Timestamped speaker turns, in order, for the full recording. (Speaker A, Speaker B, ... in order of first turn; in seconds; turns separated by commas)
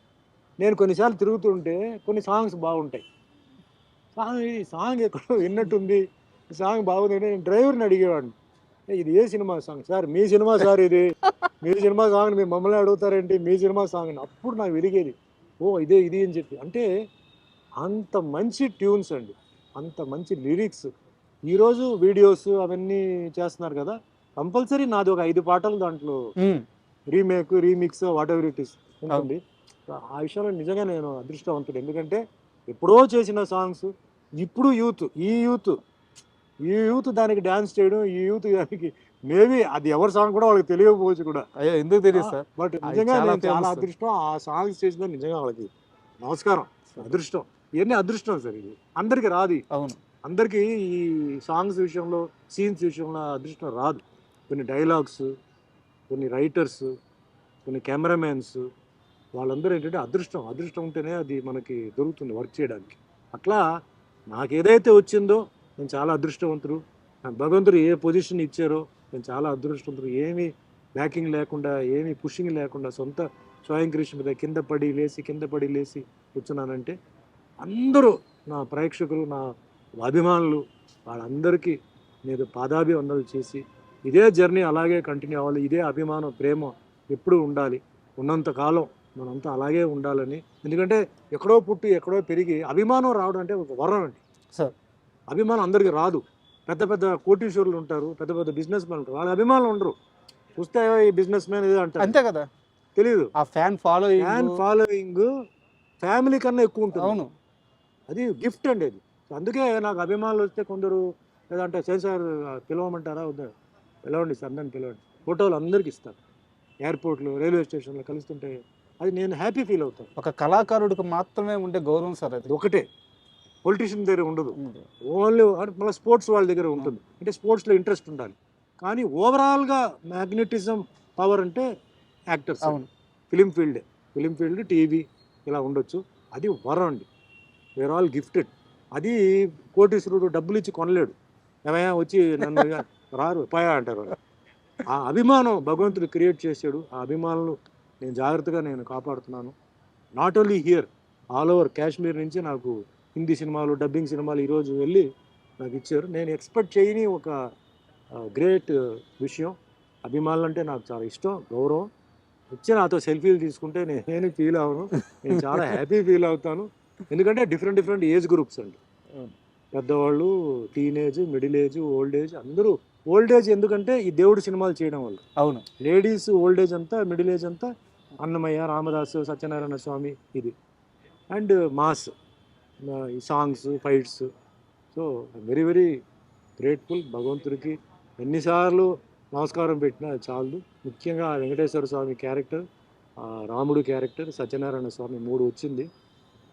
Speaker A: 0.6-3.0, Speaker A: 4.2-6.0, Speaker A: 6.5-8.3, Speaker A: 8.9-11.1, Speaker A: 11.6-16.9, Speaker A: 17.8-20.9, Speaker A: 21.5-26.2, Speaker B: 26.4-26.6, Speaker A: 27.1-29.4, Speaker A: 29.9-35.8, Speaker A: 36.6-41.5, Speaker B: 41.6-43.9, Speaker A: 42.1-45.7, Speaker A: 46.2-49.6, Speaker B: 49.7-50.0, Speaker A: 50.2-55.3, Speaker A: 56.1-56.9, Speaker A: 57.6-58.6, Speaker A: 59.3-63.6, Speaker A: 64.3-76.9, Speaker A: 77.6-79.4, Speaker A: 80.0-94.2, Speaker A: 95.3-99.9, Speaker A: 100.5-102.2, Speaker B: 102.0-102.5, Speaker A: 103.0-103.3, Speaker B: 103.4-104.6, Speaker A: 104.2-105.3, Speaker A: 106.0-107.2, Speaker B: 106.9-107.3, Speaker A: 108.1-113.5, Speaker A: 114.0-116.2, Speaker A: 116.8-120.1, Speaker B: 120.2-122.5, Speaker A: 122.5-122.8, Speaker A: 123.6-124.6, Speaker B: 124.5-124.8, Speaker A: 125.1-131.7, Speaker A: 132.3-132.8, Speaker B: 132.6-132.9, Speaker A: 133.3-137.1, Speaker A: 137.8-139.2, Speaker A: 139.7-141.1, Speaker A: 141.7-144.2, Speaker A: 144.9-149.5, Speaker A: 150.2-155.0, Speaker A: 155.6-157.3, Speaker A: 158.2-159.5, Speaker A: 160.1-161.8, Speaker A: 162.5-169.2, Speaker A: 169.7-175.2, Speaker B: 175.4-175.6, Speaker A: 175.8-177.7, Speaker A: 178.2-180.5, Speaker A: 181.3-182.1, Speaker A: 182.8-184.2, Speaker A: 184.9-185.9, Speaker A: 186.6-192.6, Speaker A: 193.2-195.9